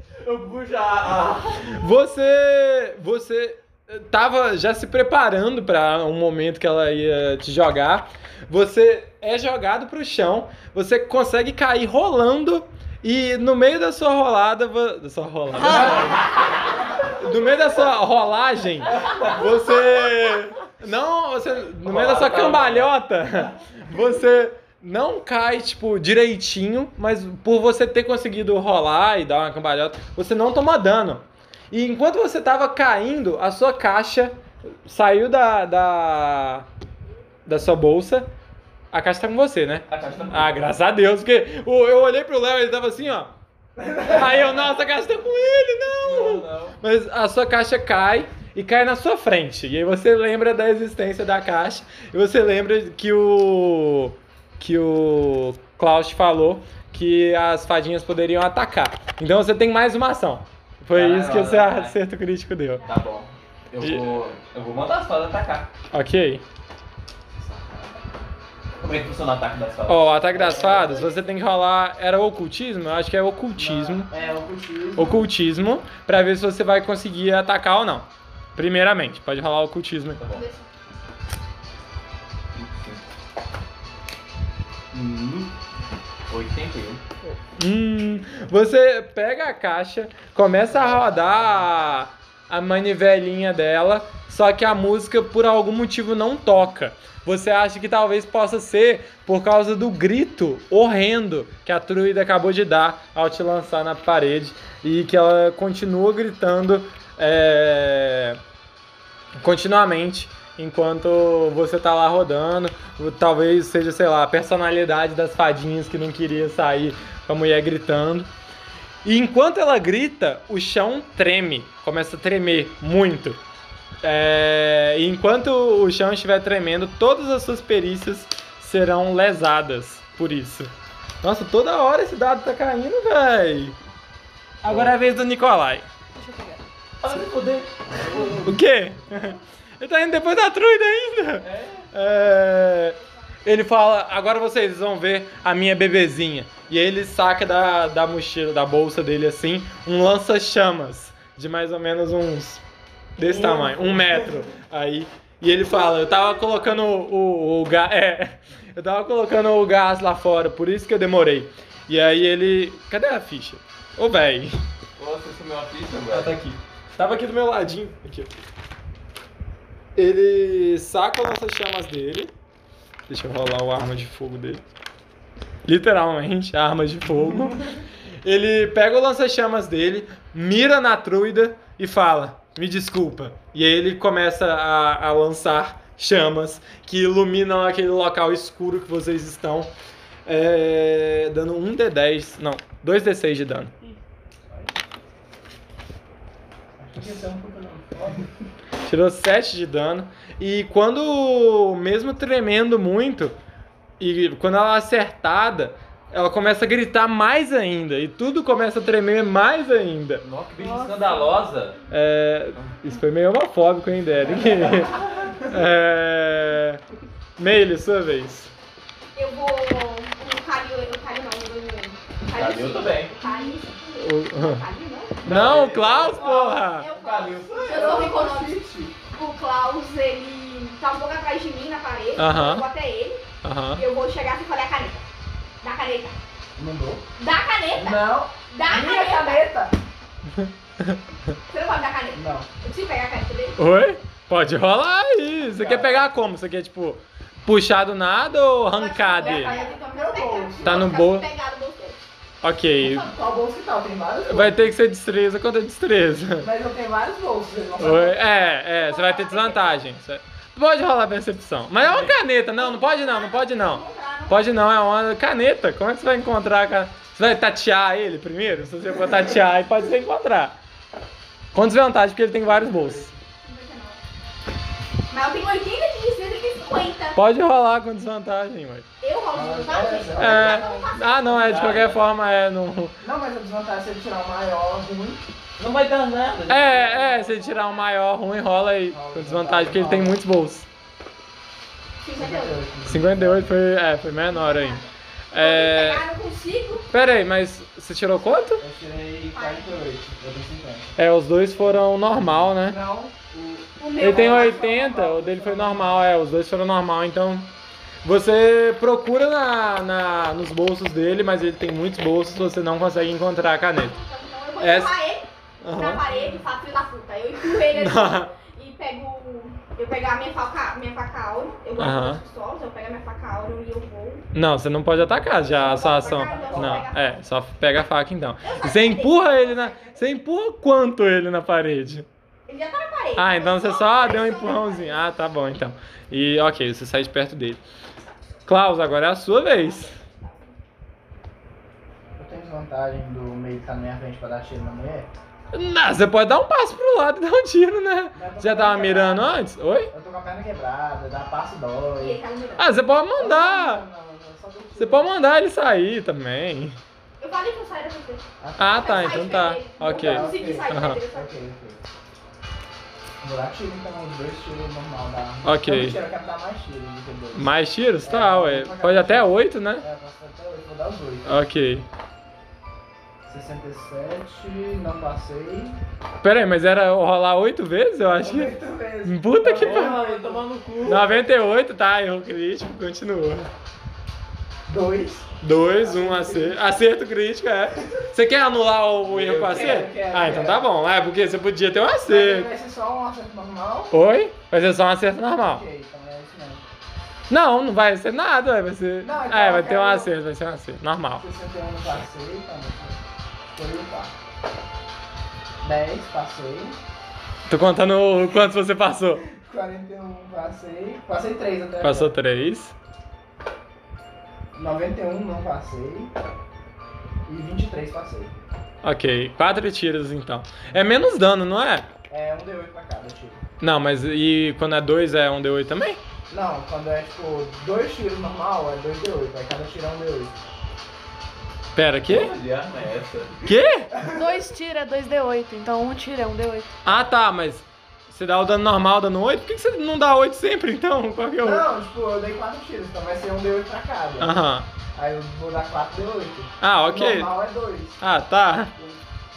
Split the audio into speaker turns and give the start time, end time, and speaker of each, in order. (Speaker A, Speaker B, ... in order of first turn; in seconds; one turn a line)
Speaker A: 0.2-1.8
Speaker B: 1.6-16.2
Speaker A: 15.5-16.8
Speaker B: 17.0-36.6
Speaker A: 18.9-19.4
Speaker A: 21.8-22.9
Speaker B: 37.5-38.3
Speaker B: 38.9-43.3
Speaker A: 39.9-40.8
Speaker C: 43.8-44.2
Speaker B: 44.0-62.8
Speaker A: 46.0-46.8
Speaker A: 60.9-62.0
Speaker A: 62.8-65.7
Speaker B: 63.8-64.2
Speaker B: 65.9-66.4
Speaker C: 67.4-68.0
Speaker A: 68.8-70.2
Speaker B: 69.9-74.1
Speaker C: 70.3-71.1
Speaker D: 70.6-70.9
Speaker C: 73.5-75.3
Speaker B: 75.0-80.2
Speaker A: 80.2-80.4
Speaker D: 80.3-80.7
Speaker A: 82.5-83.0
Speaker A: 84.9-85.5
Speaker A: 86.3-87.0
Speaker B: 87.6-108.4
Speaker C: 90.6-91.9
Speaker B: 109.4-118.3
Speaker B: 119.0-123.4
Speaker B: 124.0-130.7
Speaker B: 131.2-133.8
Speaker B: 134.6-135.8
Speaker A: 134.6-135.0
Speaker E: 136.2-136.6
Speaker A: 137.0-138.6
Speaker B: 138.3-152.6
Speaker A: 141.4-141.9
Speaker B: 153.2-164.6
Speaker A: 153.2-154.4
Speaker A: 165.0-166.4
Speaker B: 166.1-168.3
Speaker B: 169.9-172.3
Speaker B: 173.1-174.6
Speaker B: 175.6-189.7
Speaker B: 190.2-193.7
Speaker C: 196.8-198.2
Speaker B: 198.8-203.3
Speaker B: 204.0-210.2
Speaker A: 210.2-211.8
Speaker E: 210.6-211.4
Speaker B: 211.9-216.8
Speaker A: 214.3-215.3
Speaker B: 217.4-218.5
Speaker D: 219.1-225.4
Speaker A: 222.3-223.2
Speaker B: 224.0-224.6
Speaker A: 225.2-228.0
Speaker B: 225.2-226.9
Speaker D: 225.9-228.6
Speaker C: 227.6-228.9
Speaker D: 229.1-235.0
Speaker B: 232.2-232.7
Speaker B: 233.4-233.8
Speaker D: 235.6-236.2
Speaker C: 236.6-237.0
Speaker D: 237.2-239.4
Speaker C: 237.7-239.8
Speaker B: 240.3-241.0
Speaker D: 241.5-243.6
Speaker C: 242.1-242.5
Speaker B: 243.6-249.6
Speaker C: 245.6-246.1
Speaker D: 248.7-252.0
Speaker C: 249.2-251.0
Speaker B: 250.6-251.3
Speaker B: 252.4-253.1
Speaker C: 252.8-254.7
Speaker B: 254.3-256.5
Speaker C: 256.4-258.2
Speaker B: 257.8-270.6
Speaker D: 258.6-259.8
Speaker A: 261.8-262.1
Speaker D: 262.5-264.4
Speaker B: 271.5-273.1
Speaker C: 272.4-273.2
Speaker D: 273.4-274.0
Speaker D: 275.1-277.2
Speaker B: 277.1-278.9
Speaker D: 279.0-281.4
Speaker C: 279.3-280.9
Speaker B: 280.1-282.9
Speaker A: 281.3-282.0
Speaker C: 283.0-285.2
Speaker A: 285.6-287.1
Speaker B: 286.5-290.7
Speaker D: 287.0-287.8
Speaker C: 288.9-290.2
Speaker D: 292.0-292.6
Speaker C: 292.2-293.5
Speaker B: 292.8-296.0
Speaker D: 294.3-296.9
Speaker B: 296.9-298.6
Speaker C: 298.6-300.9
Speaker D: 299.3-299.8
Speaker B: 301.0-302.8
Speaker C: 301.6-306.0
Speaker D: 303.8-305.1
Speaker B: 304.0-307.5
Speaker B: 308.0-313.9
Speaker D: 313.8-324.3
Speaker B: 314.6-315.0
Speaker B: 315.6-316.0
Speaker B: 317.7-318.3
Speaker B: 321.8-322.2
Speaker B: 324.3-332.1
Speaker C: 325.4-326.9
Speaker D: 325.5-327.2
Speaker D: 328.4-330.0
Speaker D: 332.5-335.0
Speaker B: 333.1-337.6
Speaker B: 338.4-339.9
Speaker D: 339.2-340.6
Speaker C: 342.2-345.1
Speaker B: 345.5-349.9
Speaker C: 348.1-352.2
Speaker D: 352.0-352.7
Speaker B: 352.6-353.8
Speaker C: 353.1-355.1
Speaker B: 354.8-356.8
Speaker D: 357.2-358.2
Speaker C: 358.4-361.8
Speaker B: 358.6-361.0
Speaker D: 358.7-361.3
Speaker C: 363.2-371.3
Speaker B: 365.4-366.0
Speaker B: 367.3-369.8
Speaker B: 371.2-371.9
Speaker C: 373.2-375.8
Speaker B: 376.2-380.0
Speaker C: 378.1-381.0
Speaker A: 379.4-381.1
Speaker B: 380.8-383.5
Speaker C: 384.7-386.8
Speaker B: 385.4-392.5
Speaker C: 389.1-390.8
Speaker C: 392.0-393.9
Speaker B: 393.9-395.6
Speaker C: 395.4-396.6
Speaker B: 397.3-401.2
Speaker C: 399.0-400.1
Speaker C: 401.1-403.0
Speaker C: 403.5-404.1
Speaker C: 405.6-406.8
Speaker B: 407.5-409.2
Speaker C: 409.2-412.1
Speaker B: 411.8-412.7
Speaker C: 414.5-416.1
Speaker C: 417.2-418.4
Speaker B: 418.8-421.9
Speaker C: 422.1-423.4
Speaker B: 423.6-426.0
Speaker C: 426.3-430.4
Speaker B: 431.7-432.3
Speaker A: 432.1-433.5
Speaker B: 433.4-433.9
Speaker C: 433.9-434.4
Speaker E: 434.1-436.8
Speaker B: 436.8-441.7
Speaker C: 441.4-444.4
Speaker B: 444.2-444.7
Speaker C: 444.9-448.0
Speaker B: 446.6-447.3
Speaker B: 448.0-448.7